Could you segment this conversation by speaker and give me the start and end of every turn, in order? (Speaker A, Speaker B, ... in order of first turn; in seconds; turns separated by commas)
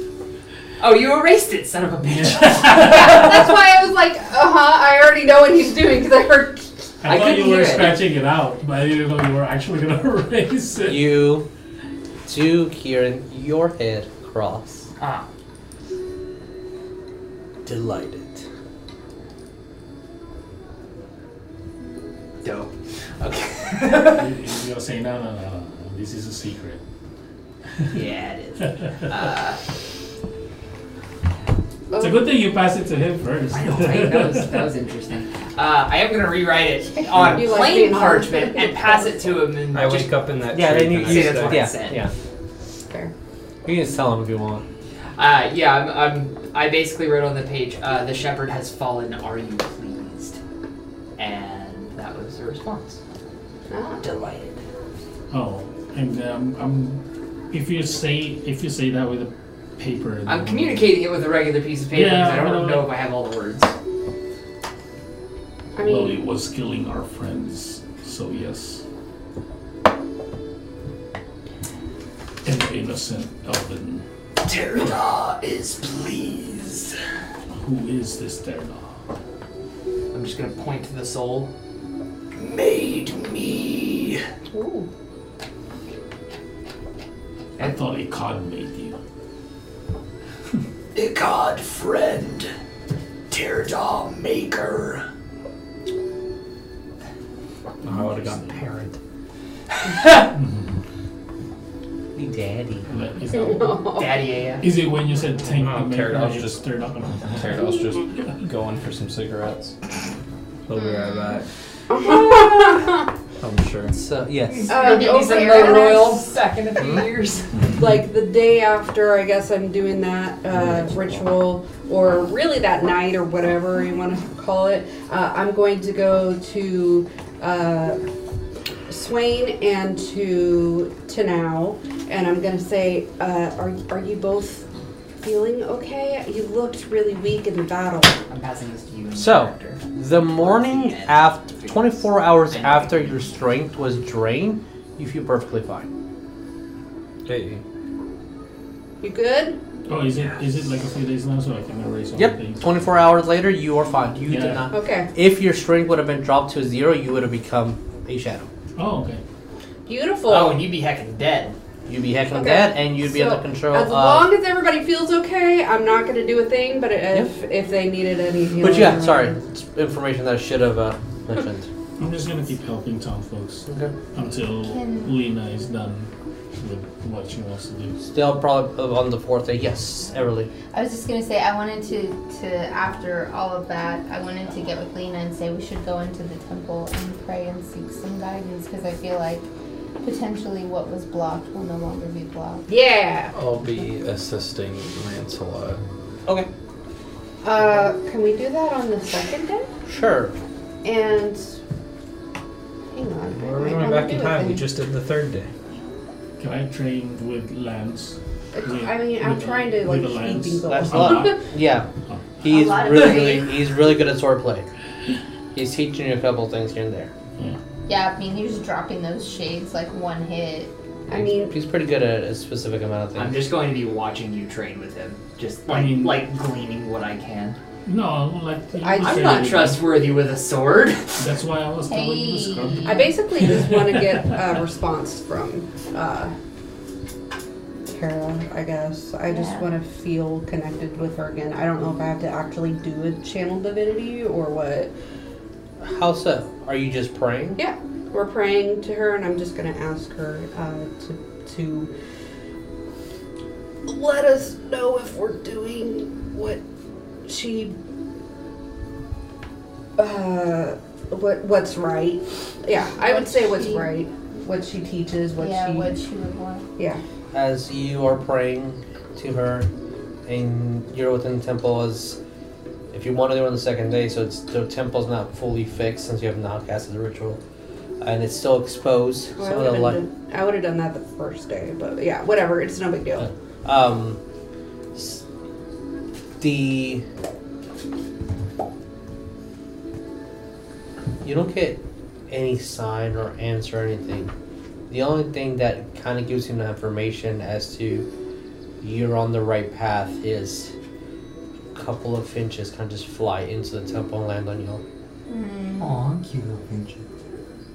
Speaker A: 0.8-3.3, Speaker B: 2.0-3.3, Speaker C: 2.8-6.9, Speaker B: 7.0-11.3, Speaker A: 7.0-8.1, Speaker D: 10.8-11.4, Speaker D: 12.3-14.8, Speaker A: 15.0-15.2, Speaker D: 17.6-18.4, Speaker A: 22.4-24.3, Speaker B: 24.0-26.8, Speaker A: 27.9-29.6, Speaker C: 31.9-32.3, Speaker B: 32.0-34.7, Speaker A: 33.5-40.3, Speaker C: 37.3-39.3, Speaker E: 39.7-41.7, Speaker D: 40.5-42.1, Speaker A: 41.0-42.1, Speaker D: 43.6-44.6, Speaker A: 45.2-50.4, Speaker A: 51.2-53.0, Speaker C: 53.7-54.0, Speaker A: 54.0-54.6, Speaker B: 55.3-57.0, Speaker B: 57.5-60.9, Speaker A: 60.3-63.7, Speaker B: 61.9-62.9, Speaker C: 65.8-66.2, Speaker B: 65.8-68.8, Speaker B: 72.4-74.0, Speaker F: 74.4-76.9, Speaker B: 77.6-79.0, Speaker A: 80.1-81.5, Speaker F: 82.3-84.2, Speaker C: 84.5-84.9, Speaker B: 87.6-89.0, Speaker F: 90.9-92.5, Speaker F: 93.3-95.0, Speaker E: 97.8-99.0, Speaker B: 97.9-98.6, Speaker B: 100.3-100.8, Speaker D: 102.2-102.9, Speaker B: 102.9-104.0, Speaker C: 103.3-104.1, Speaker A: 103.9-104.7, Speaker B: 104.6-107.6, Speaker E: 105.5-106.6, Speaker E: 107.3-109.8, Speaker E: 110.7-111.5, Speaker G: 110.7-111.3, Speaker C: 111.9-113.0, Speaker E: 112.0-112.8, Speaker E: 113.4-113.9, Speaker D: 113.9-114.8, Speaker A: 114.5-117.6, Speaker C: 114.7-116.2, Speaker G: 114.8-116.2, Speaker D: 116.8-117.0, Speaker C: 117.8-128.0, Speaker C: 128.9-134.7, Speaker C: 135.2-138.2, Speaker A: 138.3-143.2, Speaker D: 139.1-145.9, Speaker E: 147.3-147.6, Speaker C: 149.0-149.6, Speaker B: 149.9-152.7, Speaker D: 152.1-158.5, Speaker B: 154.3-154.7, Speaker C: 154.7-155.1, Speaker B: 158.8-159.2, Speaker C: 159.9-160.7, Speaker A: 160.3-161.6, Speaker D: 161.9-164.3, Speaker C: 162.3-169.4, Speaker D: 168.6-171.7, Speaker B: 172.0-178.0, Speaker D: 173.7-173.9, Speaker G: 174.6-175.2, Speaker D: 178.0-180.5, Speaker G: 180.7-189.4, Speaker G: 190.0-192.7, Speaker C: 192.7-193.3, Speaker E: 193.3-195.8, Speaker C: 197.4-199.7, Speaker D: 199.9-200.3, Speaker C: 200.8-201.6, Speaker C: 202.9-204.7, Speaker E: 203.3-205.5, Speaker B: 206.4-211.5, Speaker C: 208.5-211.4, Speaker D: 210.7-211.9, Speaker B: 212.1-212.4, Speaker D: 212.4-214.7, Speaker G: 212.5-213.6, Speaker D: 215.5-217.1, Speaker G: 217.9-220.7, Speaker C: 221.1-221.6, Speaker D: 221.1-223.5, Speaker A: 223.1-227.6, Speaker B: 225.7-226.2, Speaker B: 227.8-229.9, Speaker C: 228.8-229.6, Speaker A: 229.0-231.2, Speaker B: 231.2-234.2, Speaker G: 231.8-233.1, Speaker C: 232.8-236.3, Speaker C: 237.9-244.9, Speaker G: 239.3-239.7, Speaker D: 245.8-247.6, Speaker C: 247.6-251.9, Speaker C: 253.8-256.6, Speaker C: 257.3-257.8, Speaker C: 260.0-265.9, Speaker G: 263.0-263.9, Speaker G: 265.4-266.6, Speaker D: 267.3-269.7, Speaker D: 270.3-272.2, Speaker D: 272.9-277.4, Speaker D: 278.0-280.0, Speaker C: 279.4-283.3, Speaker D: 283.2-284.2, Speaker D: 284.9-285.2, Speaker D: 286.4-287.0, Speaker D: 291.2-294.3, Speaker D: 294.9-298.1, Speaker D: 298.8-300.7, Speaker D: 301.7-304.8, Speaker G: 305.3-306.0, Speaker A: 305.8-307.0